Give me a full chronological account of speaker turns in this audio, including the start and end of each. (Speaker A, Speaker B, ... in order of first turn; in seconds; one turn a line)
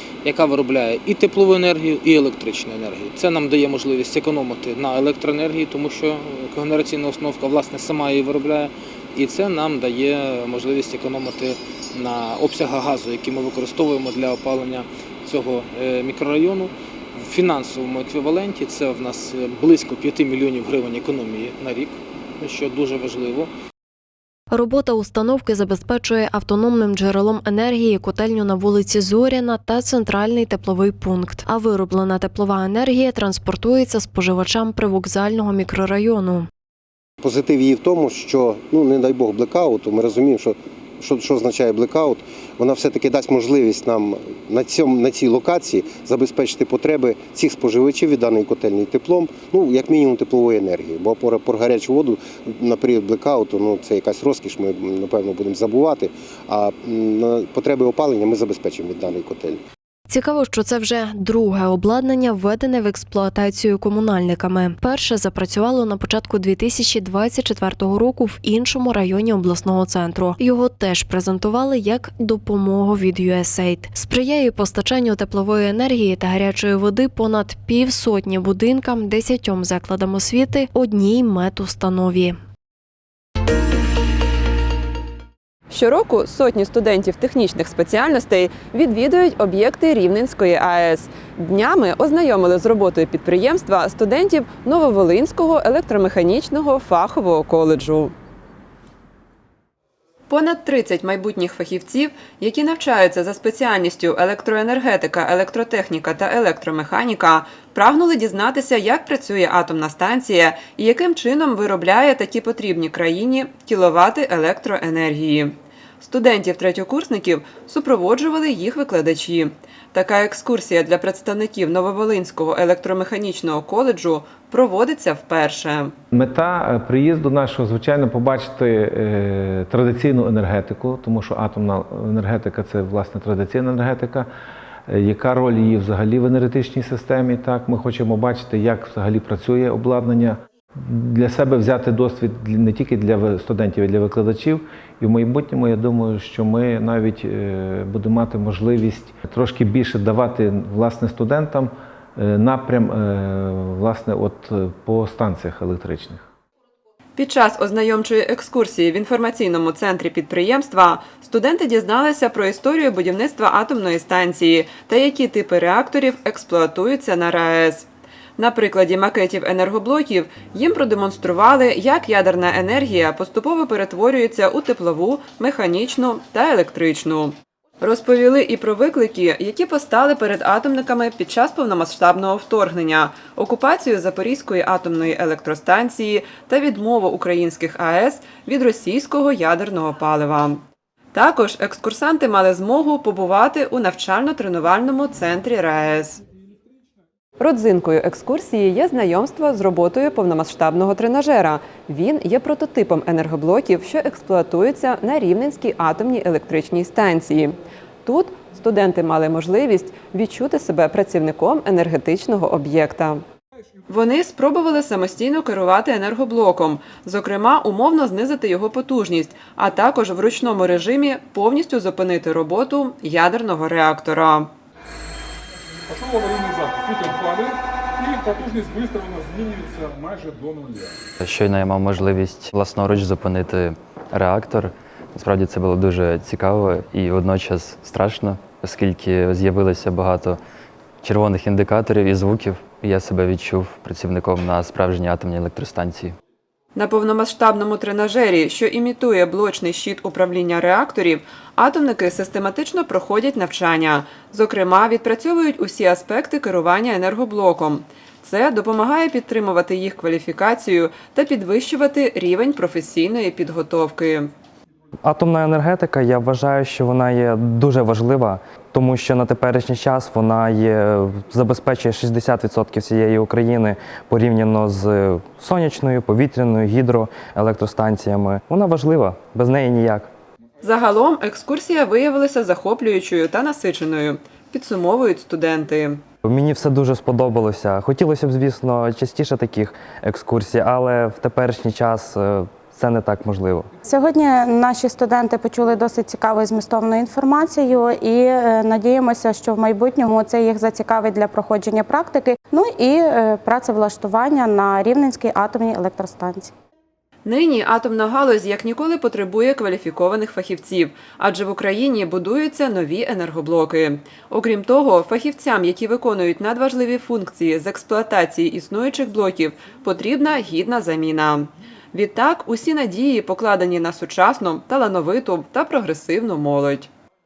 Speaker A: 0.2-23.5
Speaker B: 24.5-36.5
Speaker C: 37.2-59.6
Speaker B: 60.1-82.4
Speaker D: 85.7-98.1
Speaker D: 100.3-125.9
Speaker E: 126.1-134.3
Speaker E: 134.9-156.3
Speaker D: 157.2-167.9
Speaker D: 168.4-190.6
Speaker D: 191.1-196.2
Speaker D: 197.4-207.6
Speaker D: 208.1-213.2
Speaker D: 213.9-224.5
Speaker F: 225.9-230.9
Speaker G: 231.2-240.4
Speaker G: 241.0-246.1
Speaker D: 246.8-264.3
Speaker H: 265.1-280.1
Speaker D: 280.6-286.0
Speaker H: 286.2-293.7
Speaker I: 293.9-306.5
Speaker D: 307.2-326.9